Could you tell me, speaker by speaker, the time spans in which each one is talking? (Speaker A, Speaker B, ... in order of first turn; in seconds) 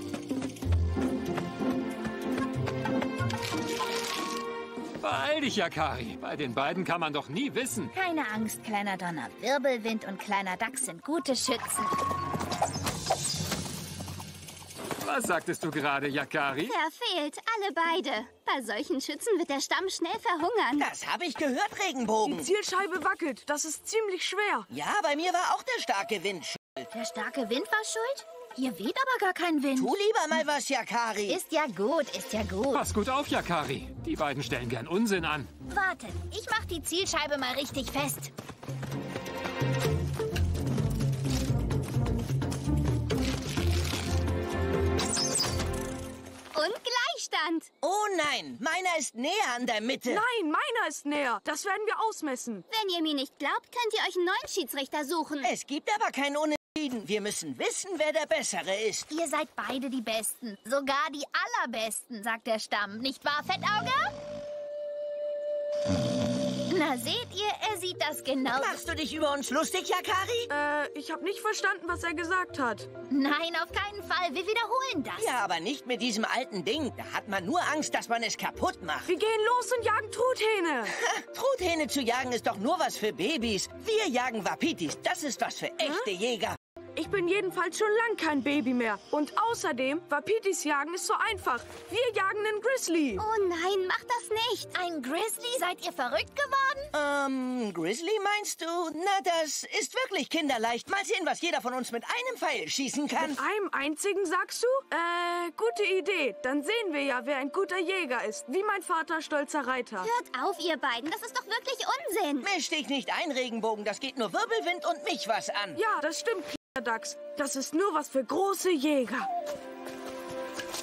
Speaker A: 5.0-7.9, 15.0-16.7, 32.7-35.5
Speaker B: 7.9-11.9, 26.9-29.9, 31.3-32.8, 35.7-38.3, 59.1-64.1, 66.7-68.8, 73.1-75.3, 94.7-96.9
Speaker C: 16.7-20.9, 46.5-47.7, 52.7-55.5, 93.2-94.7, 110.0-112.5
Speaker D: 20.8-22.5, 24.7-26.9, 29.8-31.4, 47.8-50.2, 55.4-59.1, 68.5-70.5, 75.2-79.1, 80.9-86.6, 96.9-103.4, 112.4-115.8
Speaker E: 22.2-24.7, 50.1-52.6, 70.5-72.9, 79.0-80.9, 87.0-93.2, 103.2-110.1, 115.8-119.3